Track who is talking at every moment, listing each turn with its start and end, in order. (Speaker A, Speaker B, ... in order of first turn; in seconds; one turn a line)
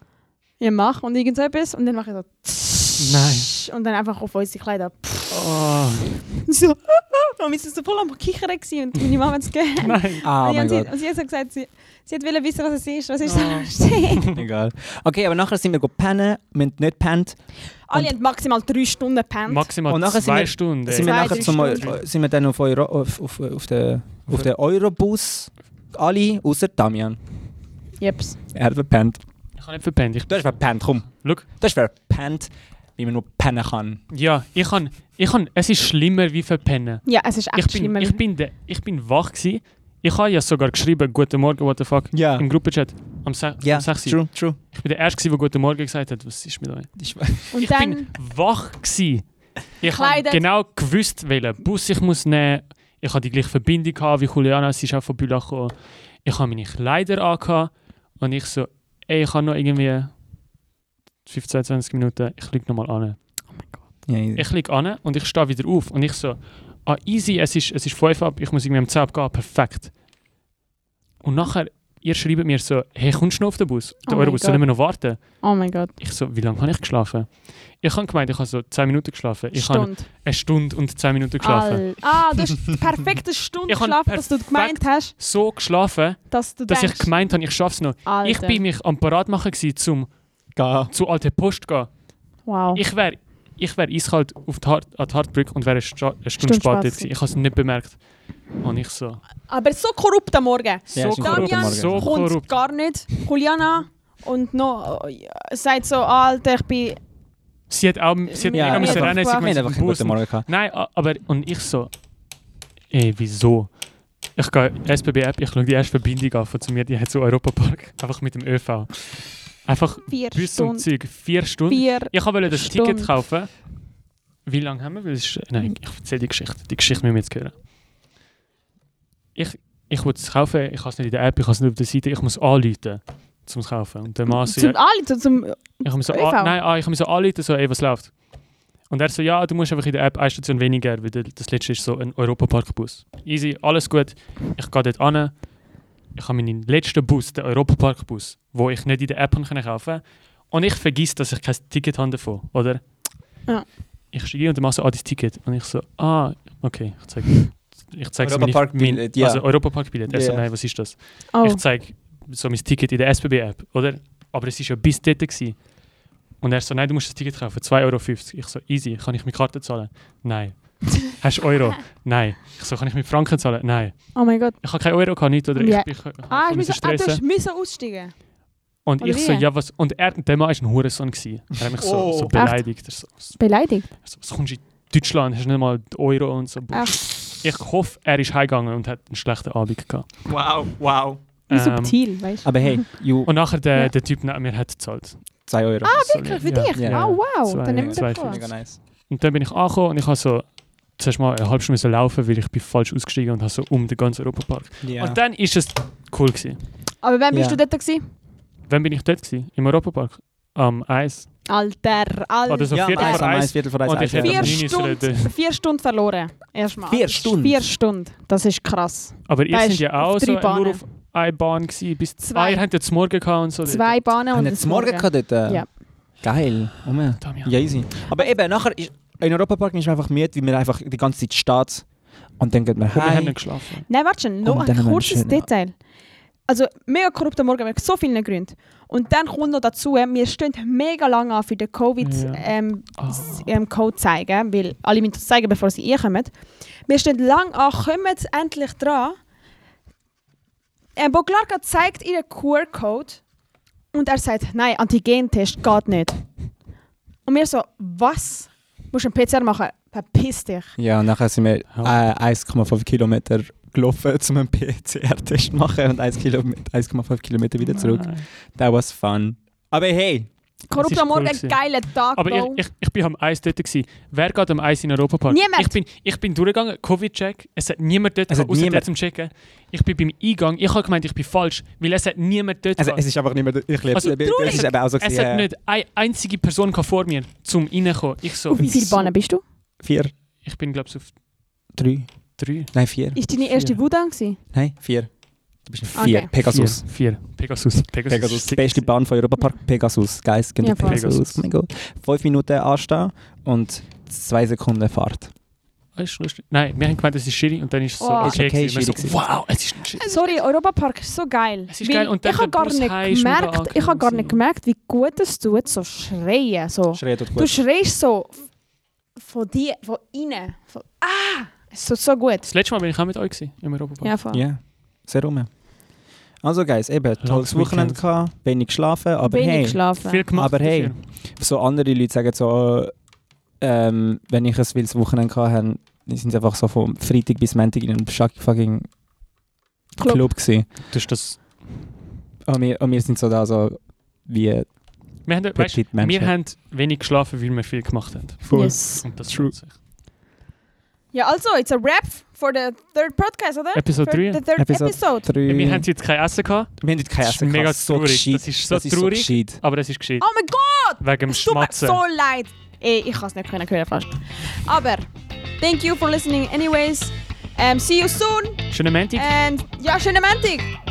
Speaker A: 0.6-5.5
Speaker B: 3.0-3.5
Speaker B: 5.3-6.2
Speaker A: 6.2-14.3
Speaker B: 9.8-10.2
Speaker C: 10.2-10.9
Speaker B: 13.2-14.3
Speaker C: 14.3-18.1
Speaker A: 17.9-19.7
Speaker B: 19.5-22.0
Speaker C: 19.9-27.2
Speaker A: 20.9-21.9
Speaker A: 28.0-28.4
Speaker C: 28.5-29.2
Speaker B: 29.6-31.4
Speaker C: 30.3-34.0
Speaker B: 34.1-49.3
Speaker A: 37.0-38.2
Speaker C: 42.1-42.5
Speaker C: 43.6-44.6
Speaker C: 47.0-47.5
Speaker A: 47.5-48.1
Speaker B: 49.8-55.7
Speaker A: 49.8-50.4
Speaker B: 56.2-60.1
Speaker B: 61.2-63.2
Speaker C: 64.1-64.5
Speaker B: 64.3-69.9
Speaker B: 71.2-75.5
Speaker A: 74.0-75.9
Speaker B: 76.0-81.9
Speaker A: 79.5-80.0
Speaker A: 81.4-85.1
Speaker B: 83.7-90.1
Speaker A: 86.3-87.1
Speaker A: 88.0-88.6
Speaker C: 90.5-90.9
Speaker B: 90.9-91.9
Speaker A: 92.4-92.8
Speaker B: 92.7-99.2
Speaker A: 96.4-97.1
Speaker A: 99.5-107.0
Speaker C: 100.9-102.1
Speaker B: 100.9-102.5
Speaker B: 107.7-111.9
Speaker A: 108.3-109.5
Speaker C: 108.5-110.5
Speaker B: 112.9-113.7
Speaker B: 114.3-123.6
Speaker A: 120.1-120.9
Speaker A: 121.7-123.1
Speaker B: 124.5-127.5
Speaker B: 129.3-134.8
Speaker A: 134.3-136.6
Speaker B: 135.8-138.2
Speaker B: 138.8-145.4
Speaker B: 146.1-152.8
Speaker B: 154.1-165.6
Speaker C: 158.2-160.4
Speaker A: 161.3-161.6
Speaker B: 166.4-177.2
Speaker A: 174.1-174.6
Speaker A: 175.5-178.1
Speaker B: 178.8-183.4
Speaker A: 179.0-179.4
Speaker C: 181.7-182.4
Speaker A: 182.3-183.9
Speaker B: 184.0-190.1
Speaker A: 186.7-187.4
Speaker C: 190.2-191.2
Speaker B: 191.5-192.0
Speaker A: 191.5-192.8
Speaker C: 192.4-193.3
Speaker B: 193.2-195.3
Speaker C: 195.5-196.1
Speaker A: 195.8-198.4
Speaker B: 195.9-198.5
Speaker C: 196.7-198.8
Speaker B: 199.1-206.6
Speaker C: 204.8-205.2
Speaker A: 207.0-208.0
Speaker C: 207.3-207.6
Speaker B: 208.7-211.3
Speaker A: 211.5-213.2
Speaker B: 212.5-215.3
Speaker C: 212.7-214.6
Speaker A: 214.2-220.8
Speaker C: 216.9-217.7
Speaker B: 219.3-224.0
Speaker A: 222.2-222.6
Speaker A: 223.6-225.7
Speaker C: 224.3-231.9
Speaker B: 227.2-227.6
Speaker C: 232.4-233.5
Speaker B: 232.9-233.9
Speaker A: 233.9-235.8
Speaker C: 234.4-235.5
Speaker A: 236.5-246.3
Speaker B: 242.0-243.5
Speaker A: 246.8-249.2
Speaker A: 250.9-253.2
Speaker A: 253.9-256.2
Speaker A: 257.2-260.7
Speaker C: 260.8-270.3
Speaker B: 267.7-268.2
Speaker A: 270.7-272.6
Speaker B: 270.8-283.1
Speaker A: 275.3-275.8
Speaker C: 278.3-278.9
Speaker C: 282.8-285.5
Speaker B: 283.9-288.6
Speaker A: 284.2-284.7
Speaker A: 288.5-289.4
Speaker C: 288.5-289.1
Speaker C: 289.8-290.1
Speaker B: 290.4-291.1
Speaker C: 291.7-292.1
Speaker B: 292.4-292.7
Speaker C: 292.7-293.2
Speaker A: 293.1-294.4
Speaker B: 293.5-293.8
Speaker C: 294.5-296.8
Speaker A: 295.9-296.3
Speaker B: 296.4-298.9
Speaker C: 298.1-305.3
Speaker A: 300.6-301.0
Speaker B: 300.7-301.4
Speaker B: 305.9-310.1
Speaker A: 308.0-308.4
Speaker C: 308.2-309.2
Speaker A: 310.0-318.5
Speaker B: 311.7-314.4
Speaker C: 316.9-317.5
Speaker A: 319.2-322.5
Speaker B: 322.5-324.1
Speaker A: 324.0-324.4
Speaker C: 324.3-325.5
Speaker C: 326.4-329.8
Speaker B: 327.2-328.0
Speaker A: 329.2-330.2
Speaker B: 330.0-331.0
Speaker C: 330.3-332.9
Speaker C: 333.6-338.9
Speaker A: 340.0-340.3
Speaker C: 340.0-340.7
Speaker B: 340.9-341.6
Speaker C: 342.4-344.7
Speaker B: 345.2-349.7
Speaker C: 345.5-346.3
Speaker C: 348.4-349.5
Speaker A: 348.5-349.1
Speaker A: 351.1-355.3
Speaker B: 353.7-354.4
Speaker C: 354.6-355.9
Speaker B: 355.4-360.3
Speaker C: 356.8-359.6
Speaker A: 360.2-365.1
Speaker B: 361.0-362.0
Speaker A: 365.6-370.7
Speaker B: 368.7-369.3